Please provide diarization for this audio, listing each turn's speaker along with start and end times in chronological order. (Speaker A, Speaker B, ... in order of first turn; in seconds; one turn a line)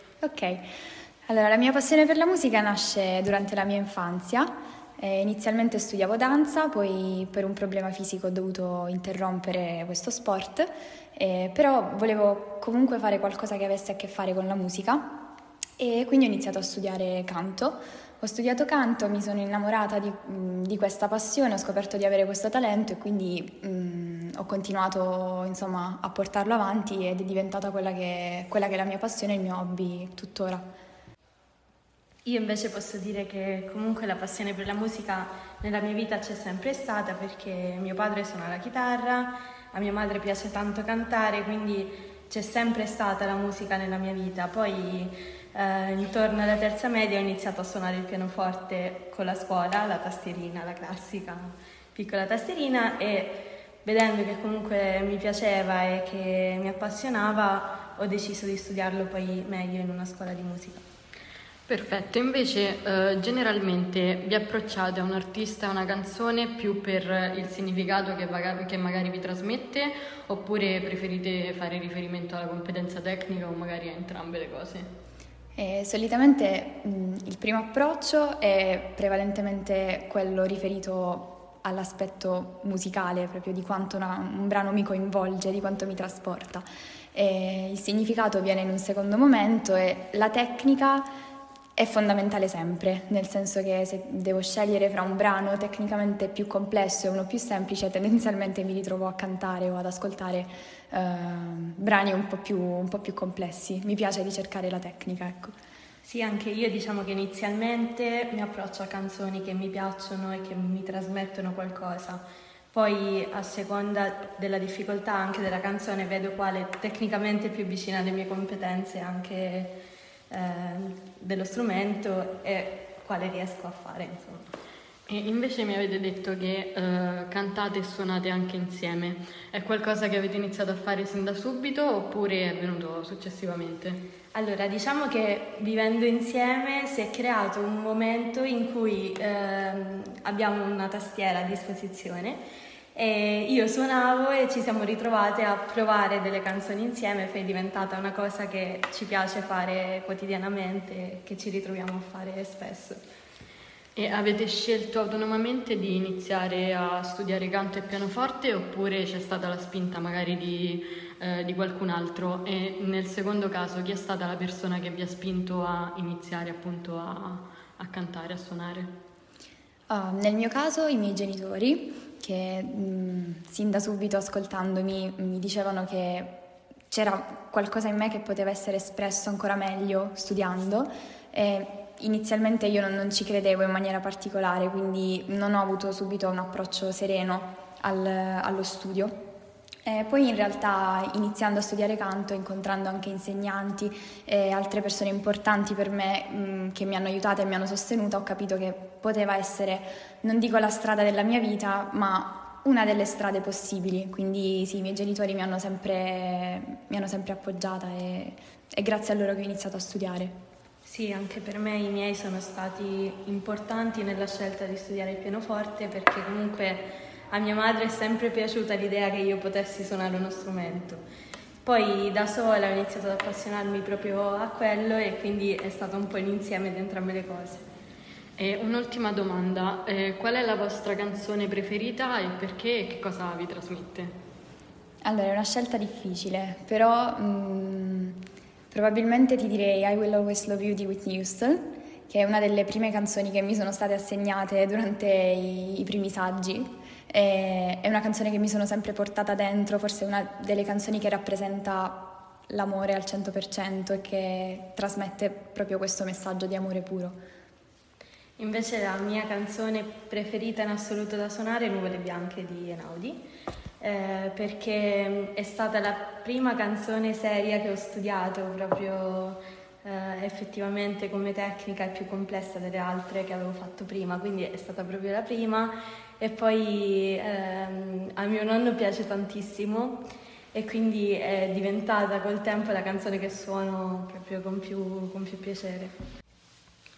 Speaker A: 0.2-0.7
Speaker A: 1.3-15.2
Speaker A: 15.8-30.6
Speaker B: 32.2-60.8
Speaker C: 61.7-74.9
Speaker A: 75.6-91.1
Speaker A: 91.8-105.5
Speaker B: 106.0-119.7
Speaker B: 120.3-124.5
Speaker C: 125.1-134.0
Speaker B: 134.3-142.4
Speaker B: 142.9-153.0
Speaker C: 153.9-168.9
Speaker A: 169.9-189.2
Speaker A: 189.8-210.3
Speaker B: 210.8-221.0
Speaker B: 221.6-227.6
Speaker C: 228.4-234.2
Speaker A: 235.0-238.2
Speaker A: 238.7-257.2
Speaker B: 258.4-263.2
Speaker B: 263.8-280.0
Speaker B: 280.5-285.9